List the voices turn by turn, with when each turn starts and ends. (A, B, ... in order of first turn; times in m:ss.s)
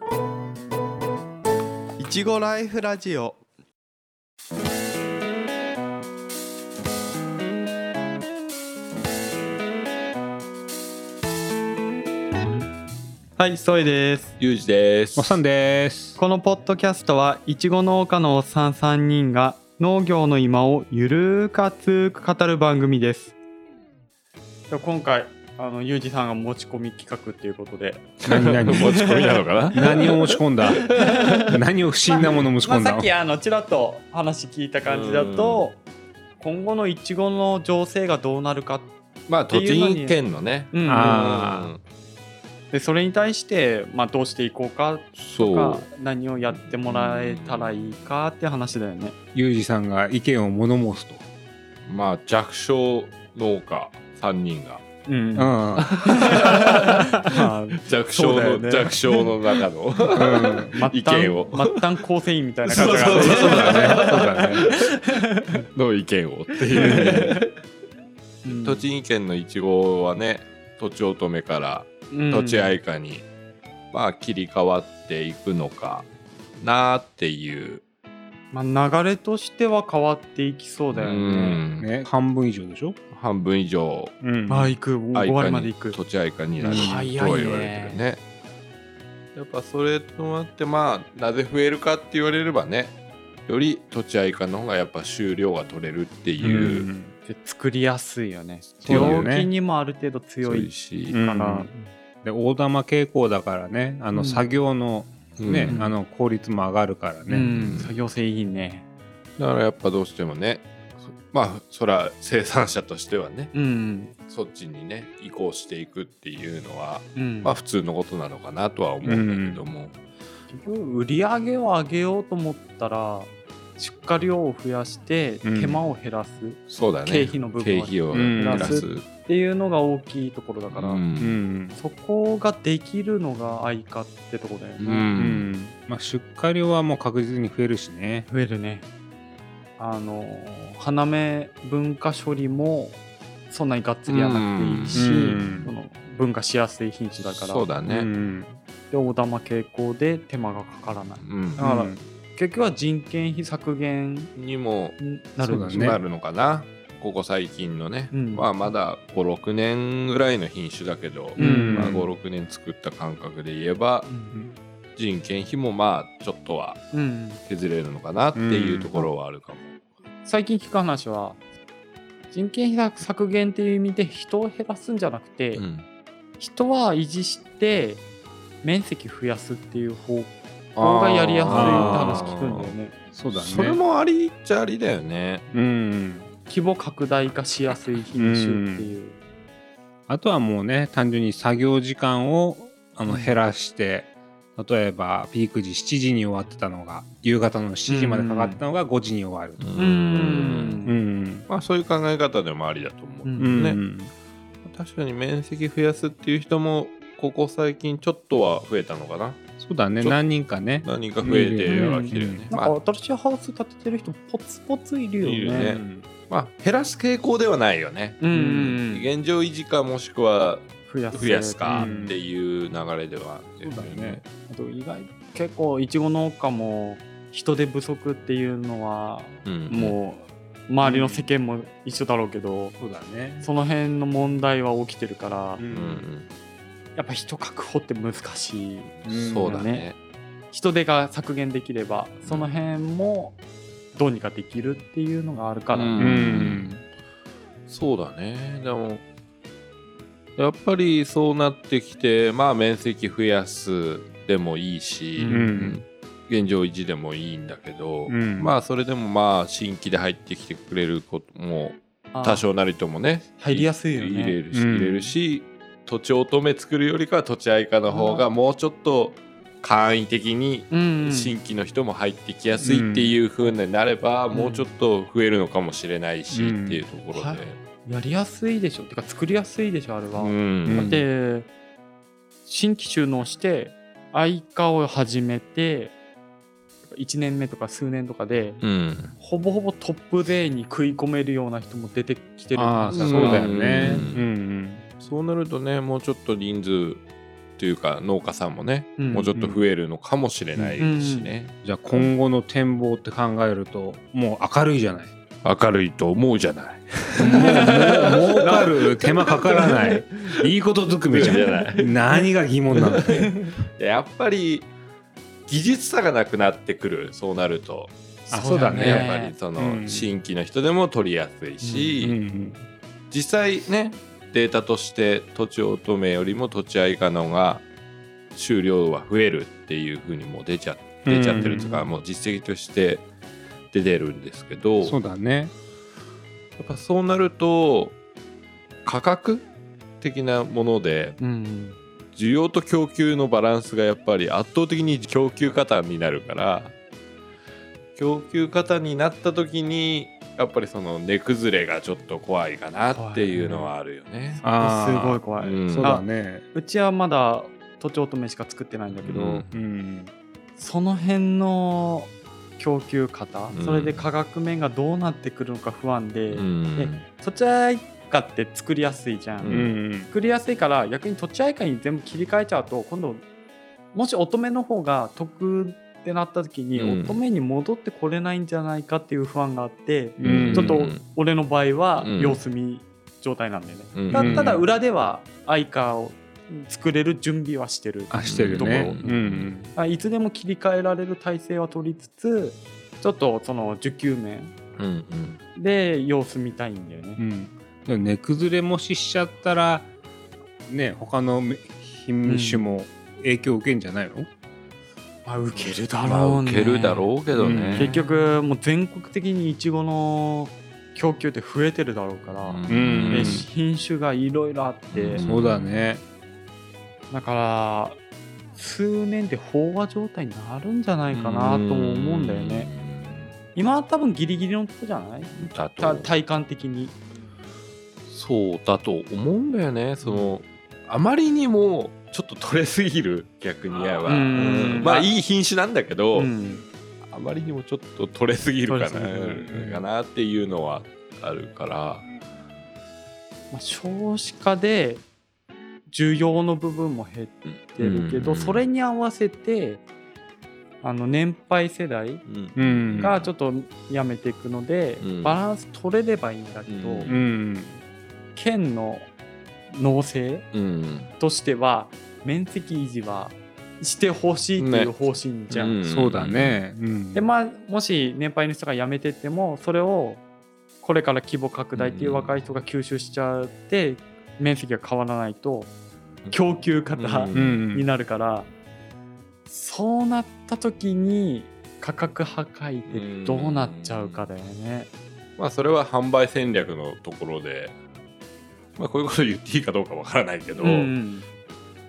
0:02.0-0:03.4 A
0:13.4-0:14.4 A
0:14.4-0:15.4 B
0:15.2-0:16.2 C
0:16.2-0:23.3 A
0:24.7-0:30.2 A
0:28.3-0:29.0 C
0:28.3-0:30.2 B
0:29.7-0:33.1 C
0:30.7-0:31.2 B
0:30.7-0:35.8 A
0:34.8-0:35.7 B
0:36.4-0:38.9 A
0:39.3-0:41.8 B
0:39.5-0:40.2 A
0:40.7-0:41.4 A
0:40.9-0:41.7 C
0:42.7-0:49.2 A
0:45.2-0:45.9 B
0:46.5-0:48.0 B
0:49.3-0:51.3 C
0:51.9-0:54.8 B
0:55.1-0:59.3 A
0:55.4-0:55.9 C
0:55.8-0:57.1 B
0:57.8-1:01.8 B
1:00.2-1:00.8 C
1:00.7-1:05.6 A
1:02.7-1:05.2 B
1:02.8-1:04.7 C
1:05.8-1:07.5 B
1:06.7-1:07.4 A
1:08.4-1:08.9 A
1:08.5-1:13.3 B
1:12.1-1:12.8 A
1:13.9-1:16.1 B
1:16.6-1:17.8 B
1:18.5-1:21.6 A
1:20.9-1:21.9 B
1:21.8-1:23.0 C
1:23.1-1:24.2 B
1:24.2-1:24.8 C
1:24.5-1:26.0 A
1:25.1-1:28.2 B
1:26.6-1:28.0 A
1:26.6-1:27.5 C
1:29.4-1:33.0 B
1:33.5-1:36.9 B
1:36.4-1:37.1 C
1:37.3-1:41.8 A
1:38.8-1:39.3 B
1:38.8-1:39.5 C
1:40.4-1:41.2 B
1:41.1-1:41.7 C
1:42.2-1:47.5 C
1:44.1-1:44.5 A
1:45.4-1:45.8 B
1:45.7-1:46.0 A
1:47.3-1:48.8 A
1:47.4-1:48.0 B
1:49.4-1:53.5 B
1:53.5-1:54.1 A
1:54.3-2:00.0 B
1:57.2-1:57.6 A
1:59.0-1:59.6 C
2:00.5-2:11.0 A
2:05.4-2:05.8 C
2:06.7-2:09.1 B
2:08.1-2:08.9 C
2:10.7-2:11.4 B
2:11.2-2:11.8 C
2:11.7-2:15.2 A
2:14.8-2:15.5 B
2:15.1-2:18.3 C
2:18.3-2:18.9 A
2:19.8-2:27.7 A
2:24.1-2:25.7 B
2:24.9-2:25.7 C
2:27.2-2:28.1 B
2:27.8-2:28.6 C
2:28.9-2:34.3 A
2:31.2-2:31.6 B
2:31.6-2:32.0 C
2:34.4-2:35.0 B
2:35.0-2:36.0 A
2:35.4-2:36.0 C
2:35.7-2:44.1 B
2:38.1-2:38.5 A
2:41.4-2:42.0 C
2:41.4-2:42.1 A
2:44.0-2:44.4 A
2:45.0-2:46.8 B
2:46.9-2:47.4 A
2:47.5-2:49.7 B
2:48.4-2:49.0 C
2:50.2-2:51.4 A
2:52.3-2:55.6 A
2:55.6-2:55.9 B
2:56.4-2:58.0 A
2:58.6-3:02.9 A
3:00.8-3:02.8 B
3:01.4-3:02.3 C
3:03.1-3:03.8 C
3:03.3-3:05.4 B
3:05.5-3:06.3 C
3:06.5-3:09.2 A
3:08.2-3:08.9 C
3:10.1-3:19.7 C
3:13.1-3:13.4 A
3:17.9-3:18.6 A
3:19.6-3:20.9 B
3:19.8-3:21.0 A
3:20.8-3:21.5 C
3:21.5-3:23.8 B
3:23.2-3:23.6 A
3:23.4-3:24.1 C
3:24.6-3:29.4 B
3:29.6-3:32.5 C
3:30.8-3:32.8 B
3:31.7-3:35.8 A
3:35.2-3:44.2 B
3:35.5-3:36.1 C
3:38.2-3:39.1 A
3:40.9-3:42.0 A
3:41.7-3:42.2 C
3:43.6-3:44.2 C
3:44.5-3:52.8 A
3:49.4-3:50.0 B
3:50.8-3:51.3 C
3:52.8-3:53.5 C
3:53.4-3:55.6 A
3:55.6-3:56.1 C
3:55.7-3:56.3 B
3:57.0-3:59.9 A
3:59.0-4:00.0 B
3:59.1-3:59.7 C
4:00.5-4:03.4 A
4:02.2-4:02.5 B
4:03.9-4:06.0 A
4:05.7-4:06.8 B
4:06.0-4:06.8 C
4:07.7-4:09.0 B
4:10.4-4:37.6 B
4:15.2-4:15.5 A
4:15.3-4:15.8 C
4:18.1-4:18.5 C
4:22.1-4:22.4 A
4:23.4-4:24.4 A
4:24.5-4:25.1 C
4:27.9-4:28.3 A
4:30.7-4:31.4 A
4:32.6-4:33.2 C
4:34.3-4:34.7 A
4:36.3-4:36.8 C
4:37.1-4:41.5 A
4:40.2-4:41.0 B
4:40.7-4:41.0 C
4:42.5-4:46.0 A
4:47.0-4:48.6 A
4:48.6-4:49.2 B
4:49.2-4:54.1 A
4:52.6-4:54.9 C
4:52.9-4:54.3 B
4:55.0-4:57.0 B
4:57.6-5:02.1 B
4:59.0-4:59.6 A
5:00.8-5:01.3 A
5:01.6-5:05.1 C
5:05.4-5:10.5 B
5:07.2-5:13.3 C
5:07.2-5:10.0 A
5:11.1-5:12.1 B
5:11.4-5:12.2 A
5:12.7-5:14.7 B
5:15.5-5:17.9 B
5:18.3-5:19.4 A
5:18.3-5:20.1 C
5:18.5-5:22.2 B
5:21.6-5:22.0 A
5:22.0-5:22.7 C
5:23.1-5:27.6 B
5:28.4-5:33.1 B
5:31.1-5:31.7 C
5:31.3-5:31.8 A
5:33.7-5:35.0 B
5:34.8-5:35.5 C
5:36.6-5:38.0 B
5:38.8-5:39.5 B
5:40.0-5:41.2 B
5:41.2-5:41.8 A
5:42.2-5:46.8 B
5:48.0-5:54.4 B
5:52.9-5:53.7 A
5:54.4-5:59.4 A
5:54.4-5:56.4 C
5:55.4-5:55.9 B
5:58.9-5:59.6 B
5:59.5-6:00.1 C
6:00.6-6:13.2 A
6:03.5-6:04.1 B
6:06.3-6:07.0 B
6:09.4-6:09.7 B
6:09.5-6:10.1 C
6:13.9-6:29.2 A
6:16.8-6:17.2 B
6:20.2-6:20.8 C
6:20.2-6:21.0 B
6:22.0-6:22.4 B
6:24.0-6:24.5 B
6:24.1-6:24.6 C
6:28.1-6:29.7 C
6:28.2-6:29.5 B
6:29.7-6:34.5 A
6:34.8-6:35.4 B
6:35.6-6:37.2 A
6:37.2-6:39.9 C
6:40.7-6:44.3 C
6:42.2-6:42.8 A
6:45.3-6:47.1 A
6:46.0-6:48.0 B
6:47.3-6:48.0 C
6:47.8-6:55.2 A
6:52.4-6:53.4 B
6:52.7-6:53.5 C
6:54.9-6:55.9 B
6:55.2-6:56.0 C
6:57.1-6:58.0 A
6:58.6-7:02.7 A
7:01.1-7:03.4 B
7:03.6-7:07.0 A
7:05.3-7:06.1 B
7:08.1-7:16.3 B
7:10.0-7:10.3 A
7:14.1-7:15.1 A
7:16.1-7:16.6 A
7:17.1-7:22.1 B
7:18.7-7:19.8 A
7:23.5-7:25.0 A
7:25.9-7:29.8 A
7:27.4-7:28.6 B
7:30.8-7:32.2 A
7:32.3-7:33.3 B
7:32.6-7:33.2 C
7:33.0-7:37.1 A
7:35.0-7:35.4 B
7:36.7-7:37.3 B
7:37.1-7:37.8 C
7:38.4-7:39.1 A
7:39.7-7:40.5 A
7:40.5-7:41.1 B
7:41.2-7:45.8 A
7:44.6-7:46.6 B
7:45.9-7:47.2 C
7:47.1-7:50.2 A
7:50.8-7:55.7 A
7:51.8-7:52.4 B
7:56.3-7:58.5 A
7:57.0-7:57.6 B
7:57.3-7:57.8 C
7:59.5-8:04.9 A
8:02.9-8:04.3 B
8:05.4-8:07.7 B
8:08.8-8:10.9 B
8:10.6-8:11.3 A